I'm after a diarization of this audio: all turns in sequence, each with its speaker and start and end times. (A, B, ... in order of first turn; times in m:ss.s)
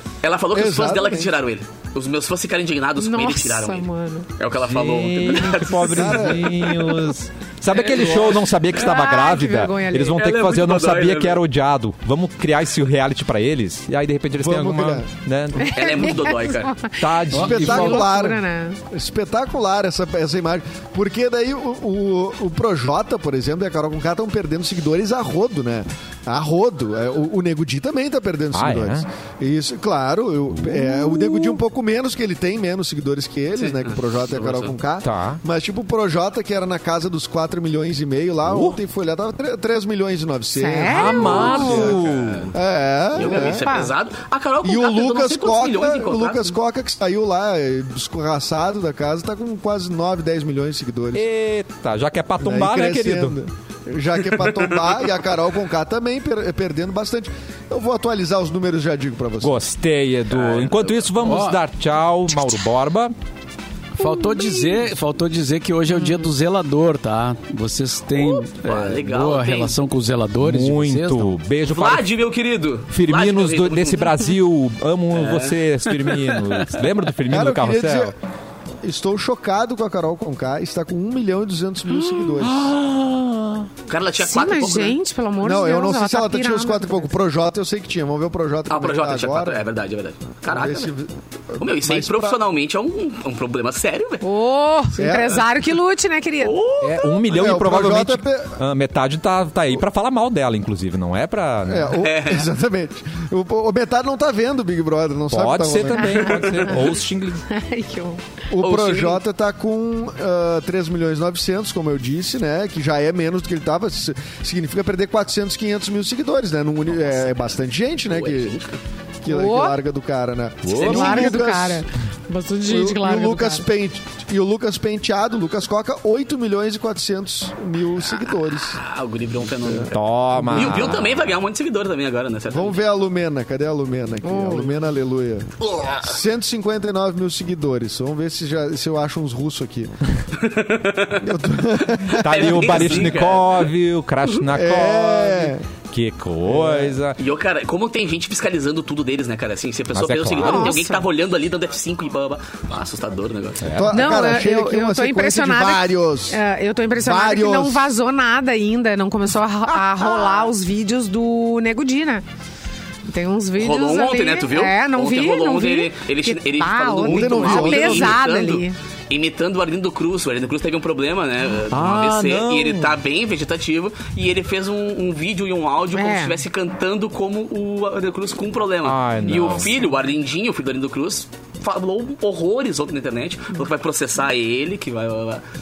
0:00.2-0:06.5 A
0:00.5-0:01.3 B
0:03.0-0:04.3 C
0:04.5-0:15.8 D
0:05.8-0:06.7 B
0:07.7-0:08.4 A
0:08.7-0:10.2 C
0:10.1-0:11.4 A
0:14.4-0:15.0 B
0:15.6-0:18.8 C
0:15.7-0:16.8 A
0:17.0-0:18.2 D
0:17.3-0:17.6 E
0:17.4-0:43.9 B
0:28.5-0:29.1 D
0:30.5-0:31.6 D
0:33.6-0:34.8 A
0:35.0-0:35.4 D
0:38.4-0:38.8 D
0:40.5-0:41.8 C
0:40.8-0:42.5 D
0:41.1-0:42.6 A
0:43.1-0:46.5 A
0:43.2-0:43.9 C
0:44.6-0:51.2 B
0:51.1-0:53.4 D
0:52.4-0:59.5 B
0:54.4-0:54.7 A
0:59.4-1:03.1 D
1:00.3-1:01.1 A
1:01.2-1:01.6 E
1:04.0-1:11.3 E
1:04.0-1:04.8 C
1:05.9-1:06.3 C
1:08.2-1:09.8 A
1:10.4-1:12.0 D
1:11.6-1:14.1 A
1:12.9-1:18.1 D
1:15.1-1:15.6 A
1:17.3-1:18.1 B
1:18.8-1:22.7 B
1:22.4-1:23.7 D
1:23.9-1:25.0 A
1:24.2-1:27.1 C
1:25.4-1:29.6 B
1:28.7-1:30.9 A
1:30.5-1:32.4 B
1:31.6-1:34.2 A
1:34.2-1:36.6 C
1:35.0-1:35.4 B
1:36.4-1:37.5 A
1:36.8-1:42.0 D
1:37.3-1:38.5 B
1:41.7-1:46.5 B
1:42.0-1:42.5 A
1:45.3-1:47.4 D
1:46.0-1:46.8 C
1:46.4-1:46.7 A
1:47.5-1:48.4 C
1:48.5-1:58.6 B
1:48.6-1:49.2 A
1:56.9-1:58.8 A
1:59.2-2:01.8 B
1:59.3-1:59.8 C
2:00.7-2:01.1 D
2:00.7-2:01.2 A
2:00.8-2:03.6 C
2:02.6-2:08.8 B
2:08.5-2:12.8 A
2:09.5-2:11.0 B
2:09.9-2:11.2 D
2:12.5-2:19.9 B
2:14.2-2:14.7 C
2:20.4-2:21.2 A
2:21.2-2:22.8 B
2:22.0-2:23.7 A
2:22.1-2:27.2 D
2:24.5-2:25.6 B
2:26.5-2:27.0 B
2:27.2-2:33.7 A
2:29.9-2:30.8 D
2:30.4-2:31.1 C
2:33.6-2:34.1 D
2:33.8-2:36.4 B
2:33.9-2:42.2 C
2:36.9-2:37.9 B
2:43.1-2:48.8 C
2:43.6-3:05.4 A
2:47.0-2:48.2 B
2:51.7-2:53.0 D
2:56.0-2:56.4 C
2:58.8-2:59.8 D